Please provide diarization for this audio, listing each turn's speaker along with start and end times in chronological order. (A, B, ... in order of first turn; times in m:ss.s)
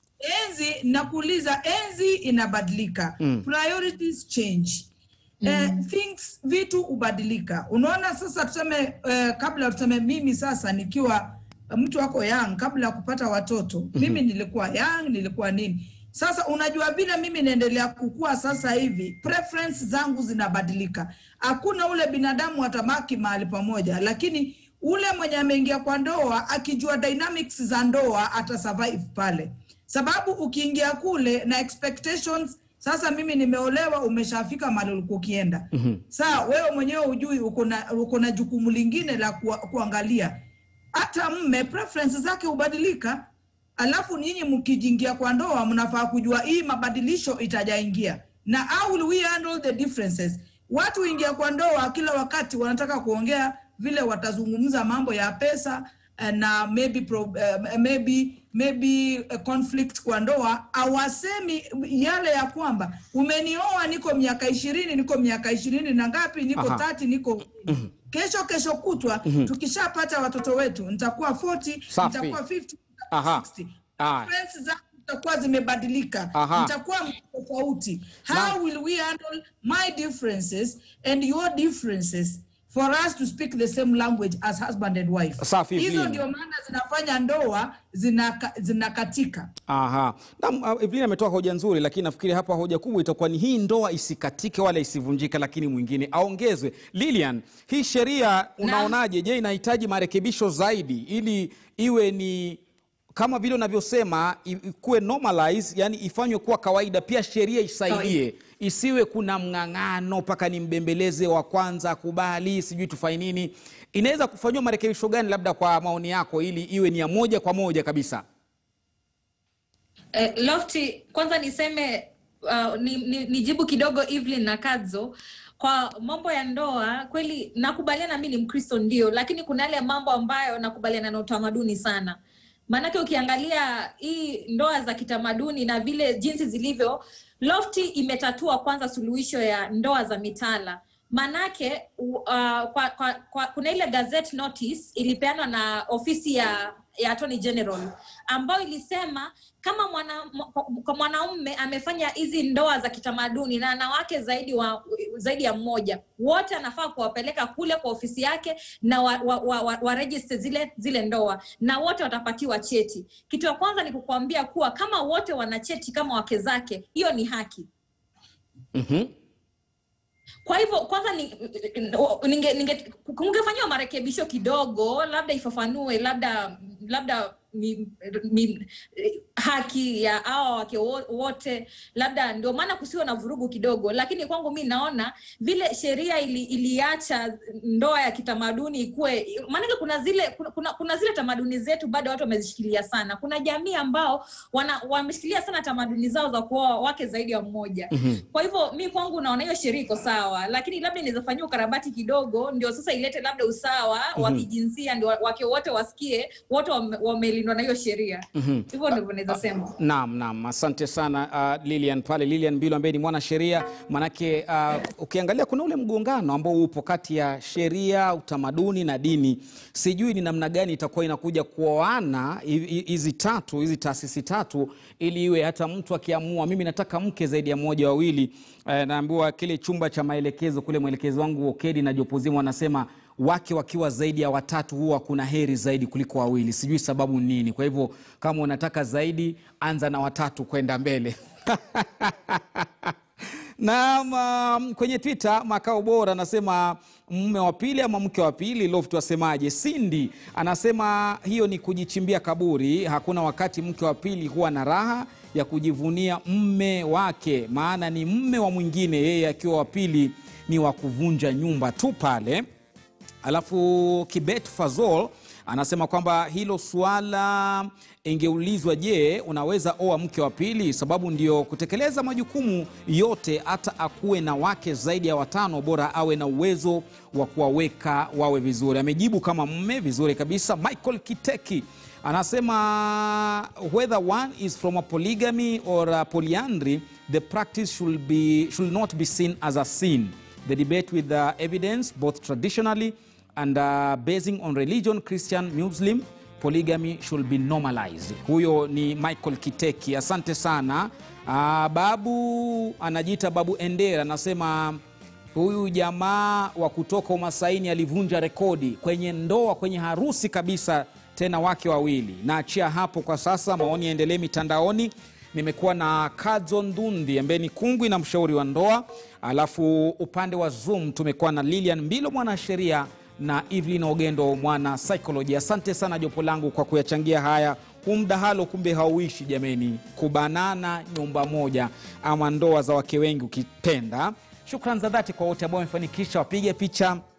0:00.2-0:04.9 A
0:03.2-0:03.4 B
0:05.4-0:05.8 C
0:05.4-0:40.4 A
0:14.0-0:14.2 B
0:35.7-0:36.0 B
0:40.9-0:43.2 A
0:43.8-1:29.5 A
1:06.6-1:06.8 B
1:11.9-1:12.4 B
1:13.1-1:13.4 B
1:14.0-1:14.3 B
1:16.3-1:16.7 B
1:18.3-1:18.6 B
1:25.4-1:26.2 B
1:29.7-1:42.6 B
1:38.6-1:38.9 C
1:43.1-1:58.2 B
1:47.9-1:48.1 C
2:00.1-2:12.2 C
2:12.7-2:47.7 C
2:48.7-2:49.1 B
2:50.4-3:29.7 C
3:17.9-3:18.2 B
3:24.2-3:24.4 B
3:28.4-4:02.9 B
4:03.6-4:22.4 B
4:23.2-5:04.8 B
5:05.3-5:37.0 B